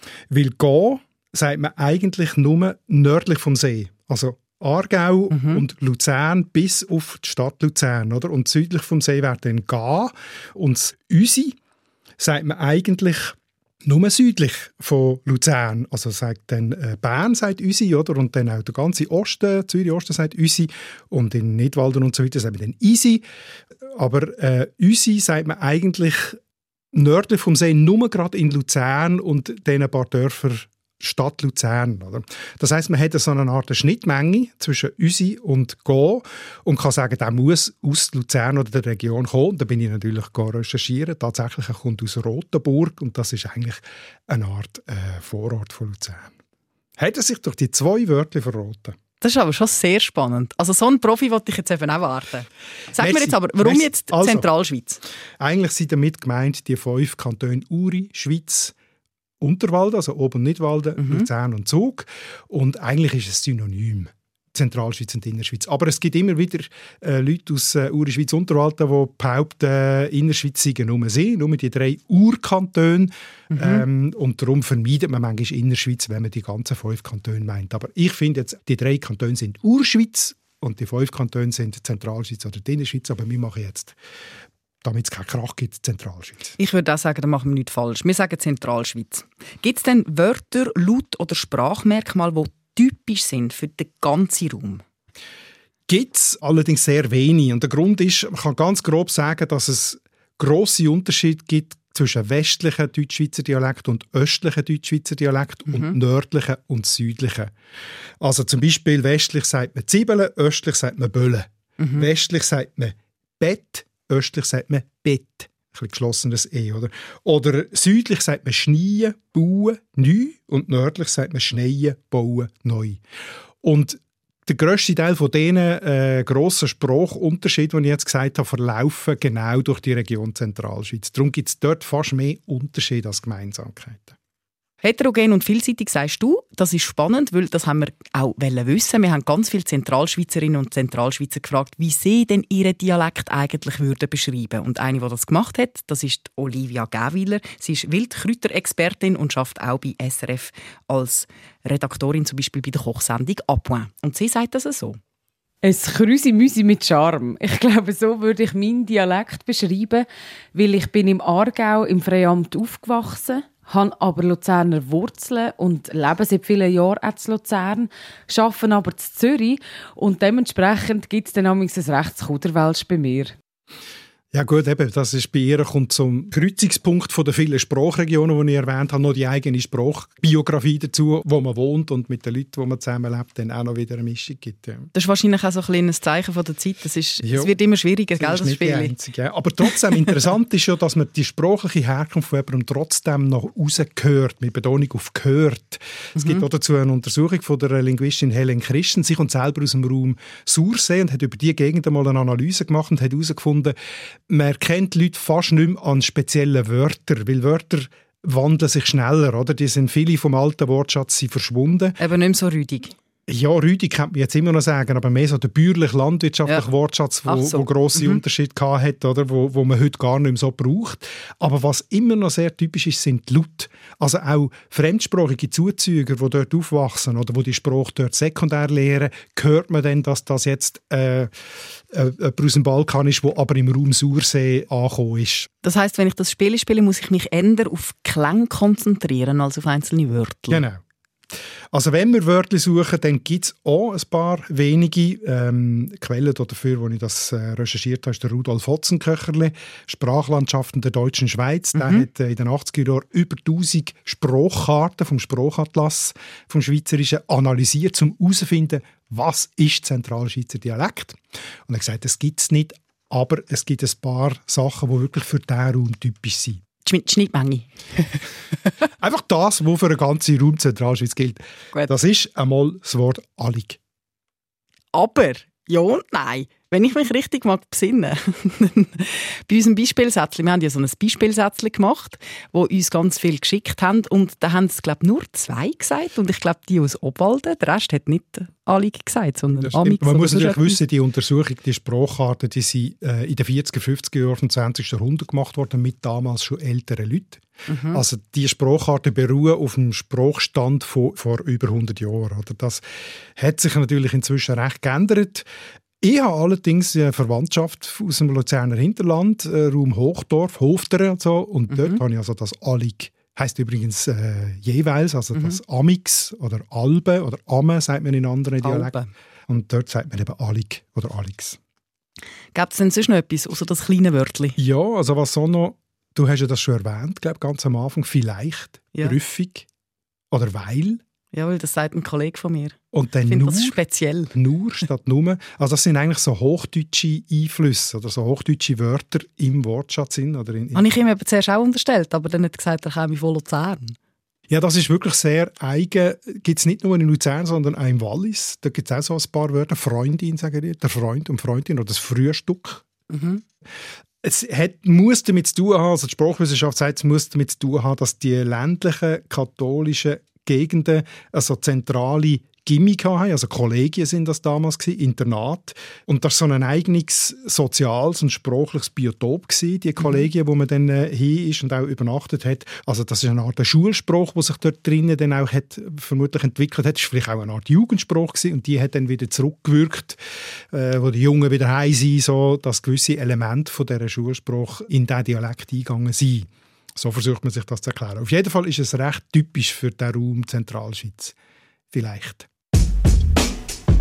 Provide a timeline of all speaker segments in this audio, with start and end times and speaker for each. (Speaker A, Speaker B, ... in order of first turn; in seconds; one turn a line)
Speaker A: 0.3-11.6
Speaker B: 5.3-5.6
Speaker A: 12.2-23.2
Speaker A: 23.8-26.4
Speaker A: 26.9-46.4
Speaker A: 47.0-49.0
Speaker B: 49.2-55.0
Speaker A: 53.0-54.5
Speaker A: 55.4-58.8
Speaker A: 59.4-84.0
Speaker B: 61.0-61.3
Speaker B: 73.5-73.8
Speaker A: 84.8-86.6
Speaker B: 86.6-94.8
Speaker A: 95.9-107.5
Speaker B: 105.7-106.0
Speaker A: 108.2-123.0
Speaker B: 111.8-112.1
Speaker A: 123.6-134.2
Speaker B: 134.8-155.0
Speaker C: 155.6-173.3
Speaker A: 174.3-184.9
Speaker B: 184.9-188.9
Speaker A: 187.2-187.5
Speaker A: 188.2-203.8
Speaker B: 196.2-196.5
Speaker A: 204.3-212.0
Speaker B: 212.0-212.9
Speaker A: 213.3-231.3
Speaker B: 217.3-218.2
Speaker A: 231.9-235.5
Speaker B: 235.6-240.6
Speaker A: 240.5-266.6
Speaker B: 251.8-252.1
Speaker B: 266.9-268.2
Speaker A: 269.0-273.8
Speaker B: 274.9-290.8
Speaker A: 289.6-302.8
Speaker B: 297.7-298.0
Speaker A: 303.4-305.5
Speaker A: 306.0-319.0
Speaker B: 311.7-312.0
Speaker B: 315.3-315.6
Speaker B: 318.6-319.1
Speaker A: 319.5-321.6
Speaker B: 322.6-324.6
Speaker A: 324.6-329.7
Speaker A: 330.3-331.0
Speaker B: 331.3-332.8
Speaker A: 332.9-333.8
Speaker B: 333.3-334.3
Speaker A: 334.3-340.9
Speaker B: 340.8-344.0
Speaker A: 344.5-352.9
Speaker B: 353.1-353.4
Speaker A: 354.2-380.2
Speaker A: 380.7-391.4
Speaker A: 391.9-392.5